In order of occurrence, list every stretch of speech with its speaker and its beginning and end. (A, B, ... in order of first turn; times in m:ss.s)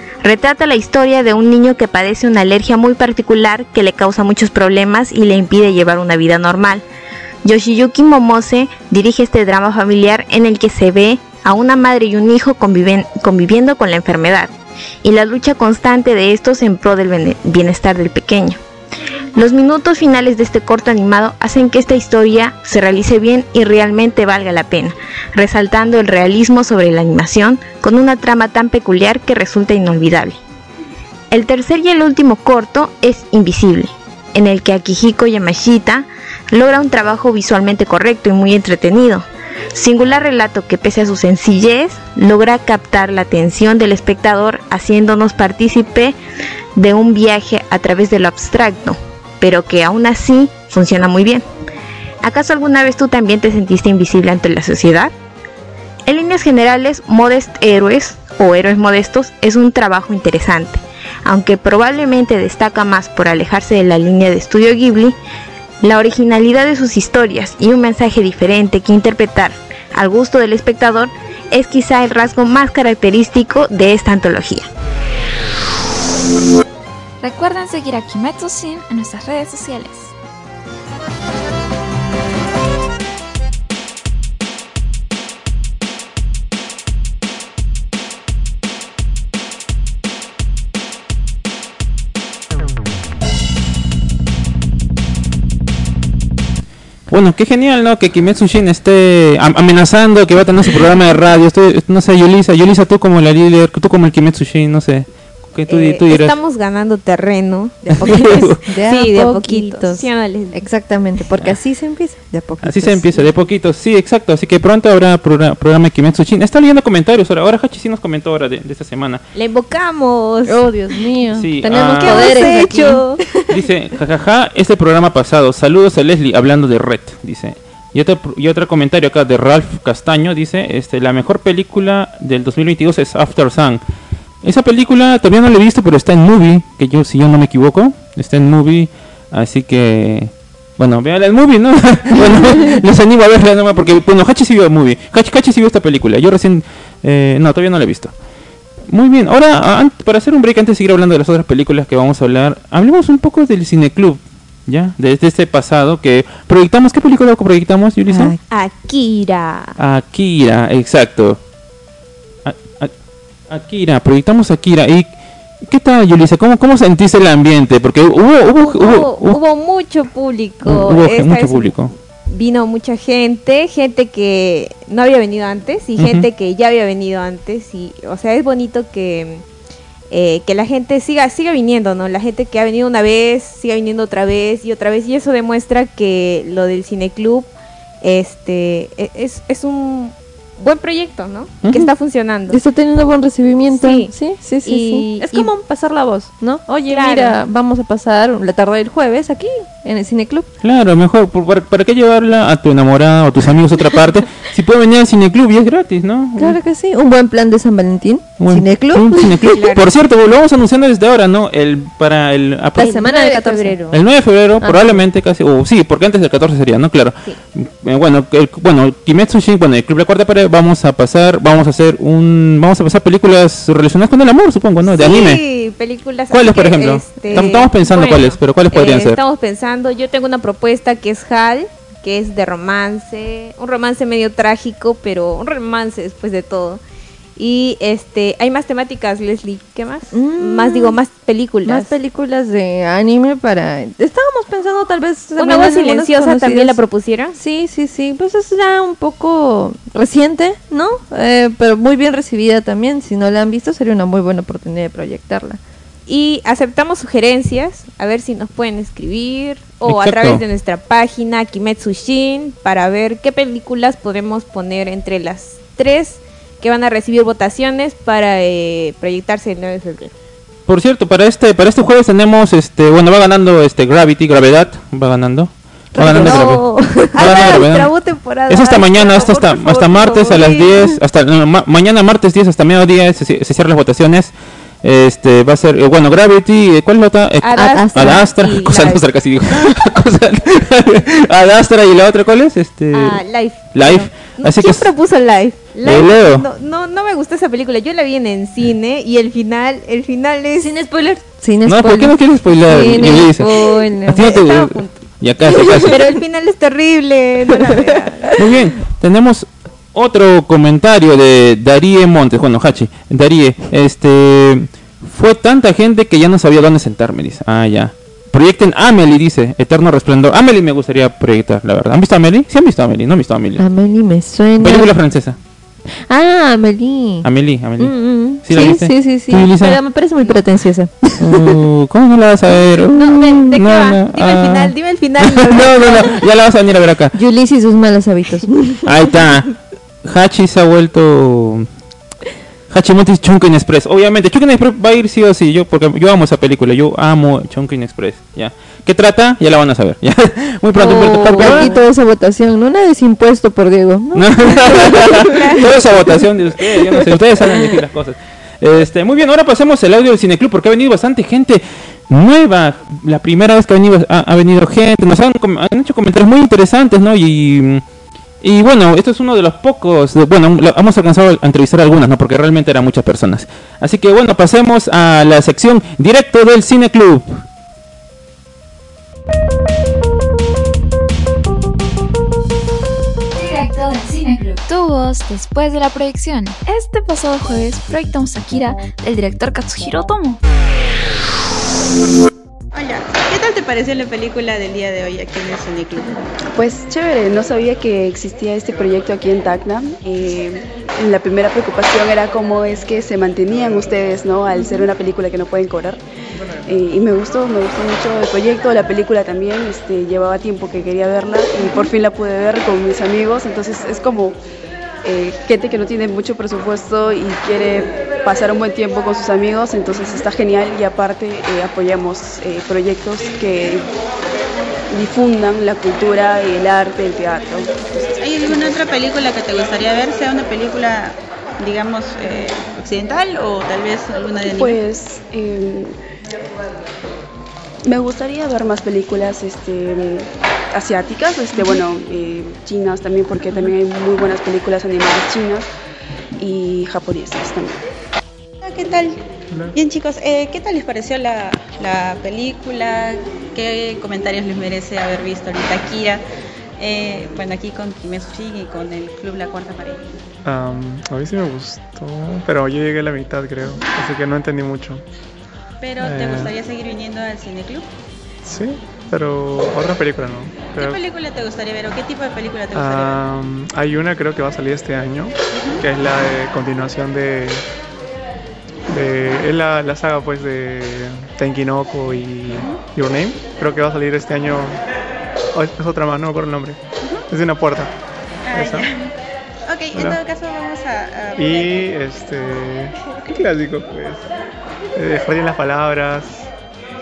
0:00.2-0:06.8 A
0:07.4-0:14.5 A
0:15.0-0:18.6 A
0:19.3-0:30.4 A
0:31.3-0:46.2 A
0:46.8-0:51.4 A
0:52.2-0:55.1 A
0:56.1-1:05.2 A
1:05.8-1:14.7 A
1:17.2-1:20.1 B
1:37.1-1:46.3 C
1:45.7-1:50.6 D
1:47.8-1:53.3 E
1:48.1-1:48.6 C
1:52.6-1:59.2 C
1:59.3-2:00.6 D
2:00.4-2:03.5 E
2:01.4-2:02.5 C
2:01.7-2:03.2 D
2:03.5-2:13.8 C
2:14.4-2:28.1 C
2:28.9-2:38.3 C
2:38.1-2:38.4 E
2:38.5-2:39.7 D
2:39.8-2:41.4 C
2:42.4-2:42.9 C
2:43.5-2:45.1 C
2:45.6-2:49.4 C
2:48.6-2:59.4 D
2:50.6-2:51.9 C
2:56.0-2:56.3 C
3:00.1-3:07.5 D
3:08.0-3:12.6 D
3:12.5-3:20.5 E
3:13.7-3:14.1 D
3:14.6-3:15.5 D
3:16.9-3:17.4 D
3:20.6-3:26.6 C
3:26.4-3:29.6 E
3:28.4-3:33.0 C
3:29.5-3:29.9 D
3:32.8-3:33.8 E
3:32.8-3:33.9 D
3:33.9-3:45.4 C
3:34.6-3:35.0 E
3:44.8-3:56.8 D
3:46.3-3:49.2 C
3:57.4-4:01.9 D
4:00.1-4:01.0 E
4:01.6-4:06.8 E
4:05.3-4:07.4 D
4:07.3-4:15.6 E
4:16.1-4:30.1 D
4:19.8-4:20.4 C
4:30.7-4:36.6 C
4:35.9-4:40.9 D
4:36.0-4:36.6 E
4:37.2-4:37.9 C
4:38.5-4:53.2 C
4:47.4-4:49.0 D
4:47.6-4:48.2 E
4:52.9-5:00.7 D
4:53.7-4:54.9 C
4:55.8-4:56.4 C
5:00.6-5:04.3 E
5:01.6-5:03.5 C
5:03.6-5:08.4 D
5:04.1-5:06.0 C
5:08.4-5:23.6 C
5:23.6-5:24.9 E
5:24.6-5:25.4 C
5:26.1-5:27.3 E
5:27.2-5:29.8 C
5:27.8-5:31.6 E
5:31.2-5:37.1 C
5:33.0-5:33.4 E
5:33.0-5:36.1 D
5:37.1-5:39.2 E
5:38.8-5:41.7 C
5:42.7-5:51.7 C
5:50.8-5:57.8 E
5:51.4-5:51.8 D
5:54.1-6:07.8 C
5:55.1-5:55.9 D
6:08.4-6:17.4 C
6:23.3-6:30.4 B
6:32.7-6:36.2 F
6:36.5-6:46.0 G
6:46.6-6:54.4 G
6:55.0-7:03.9 G
7:04.9-7:08.7 G
7:08.2-7:14.8 F
7:14.5-7:16.0 G
7:17.8-7:25.7 G
7:26.4-7:27.8 G
7:28.6-7:29.2 F
7:29.7-7:36.2 F
7:36.8-7:40.2 F
7:40.4-7:45.0 H
7:45.8-7:47.9 F
7:46.0-7:46.5 H
7:48.4-7:51.0 H
7:50.7-7:53.2 F
7:52.7-7:57.6 H
7:55.5-7:55.8 F
7:58.9-8:04.8 H
8:02.5-8:02.8 F
8:05.5-8:07.9 H
8:07.0-8:07.3 F
8:08.4-8:09.1 F
8:08.5-8:08.9 H
8:09.7-8:11.9 F
8:09.9-8:10.2 H
8:11.4-8:14.2 H
8:15.0-8:16.5 H